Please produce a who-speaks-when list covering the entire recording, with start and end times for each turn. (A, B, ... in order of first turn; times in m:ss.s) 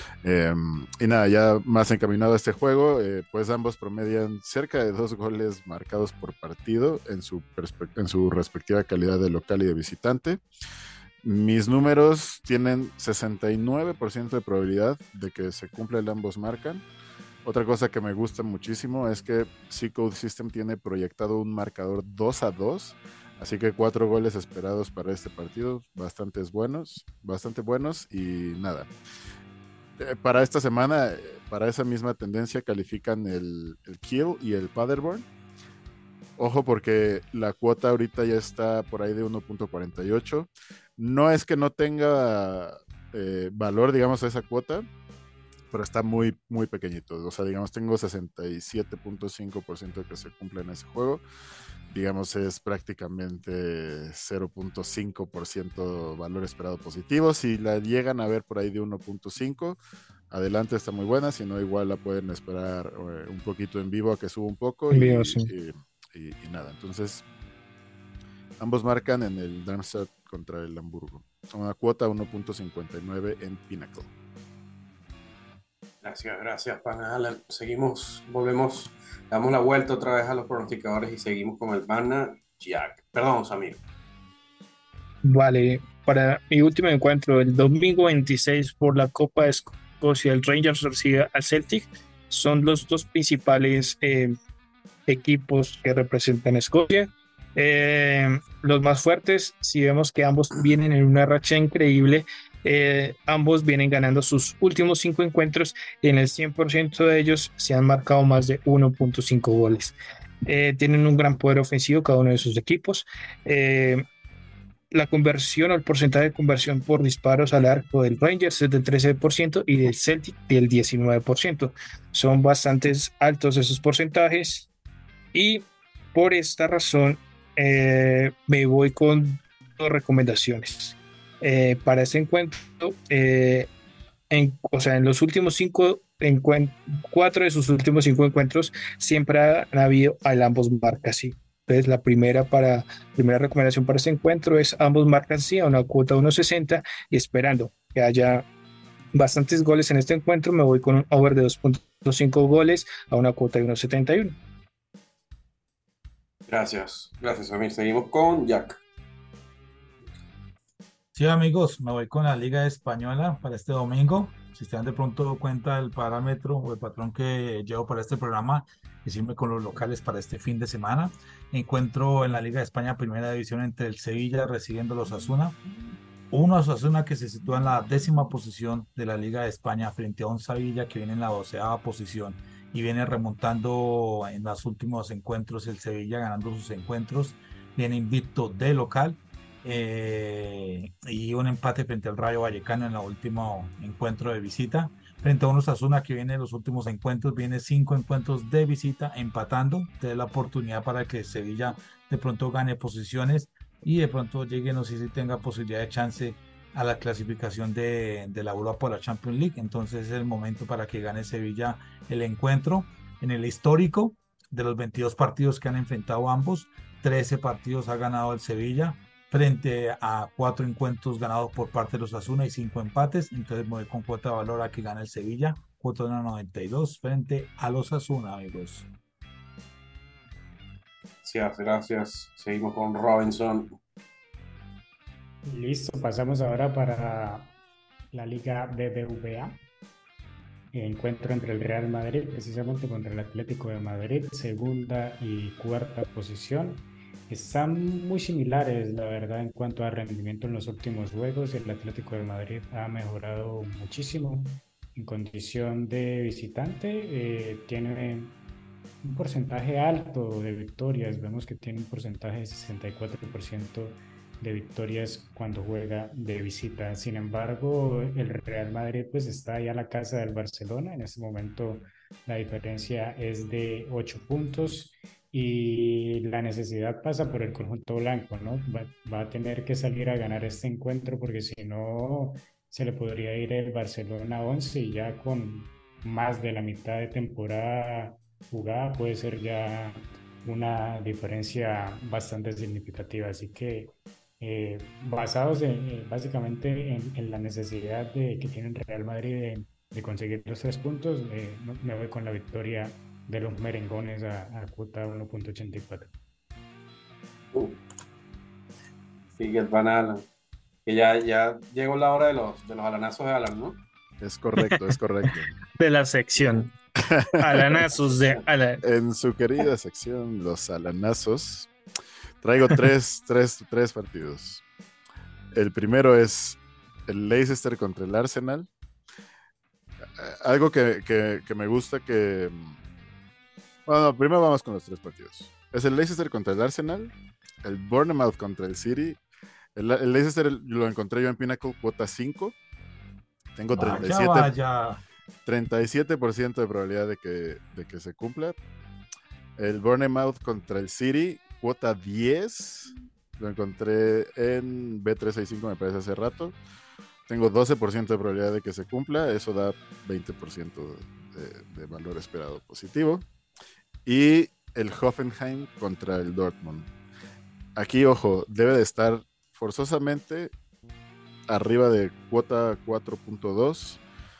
0:00.2-0:10.4 A
0:11.2-0:16.8 A
0:17.4-0:28.9 A
0:30.0-0:35.2 A
0:36.4-0:44.8 A
0:45.7-0:51.2 A
0:51.9-0:59.8 A
1:00.3-1:07.2 A
1:04.9-1:05.5 B
1:08.6-1:14.1 A
1:16.0-1:23.8 C
1:25.2-1:34.3 B
1:35.1-1:54.0 B
1:54.9-2:04.7 B
2:05.3-2:13.7 B
2:14.3-2:28.4 B
2:29.1-2:34.4 B
2:36.5-2:38.8 C
2:41.1-2:55.6 D
2:56.3-3:48.9 D
3:51.2-3:53.8 C
3:55.4-3:57.5 E
3:58.1-3:59.6 E
4:00.7-4:18.3 E
4:19.0-5:06.1 E
5:07.5-5:07.8 C
5:09.4-5:10.2 C
5:10.8-5:13.8 C
5:14.2-5:15.6 A
5:15.8-5:16.7 B
5:17.0-5:17.8 A
5:17.4-5:18.8 B
5:18.8-5:21.7 A
5:22.4-5:24.6 A
5:25.5-5:28.7 A
5:30.2-5:32.8 A
5:33.8-5:39.2 A
5:39.8-5:42.5 A
5:43.6-5:44.5 A
5:43.7-5:45.0 D
5:45.4-5:48.6 A
5:49.6-5:56.6 A
5:57.3-6:03.2 A
6:04.0-6:06.9 A
6:07.8-6:10.5 A
6:11.5-6:14.0 A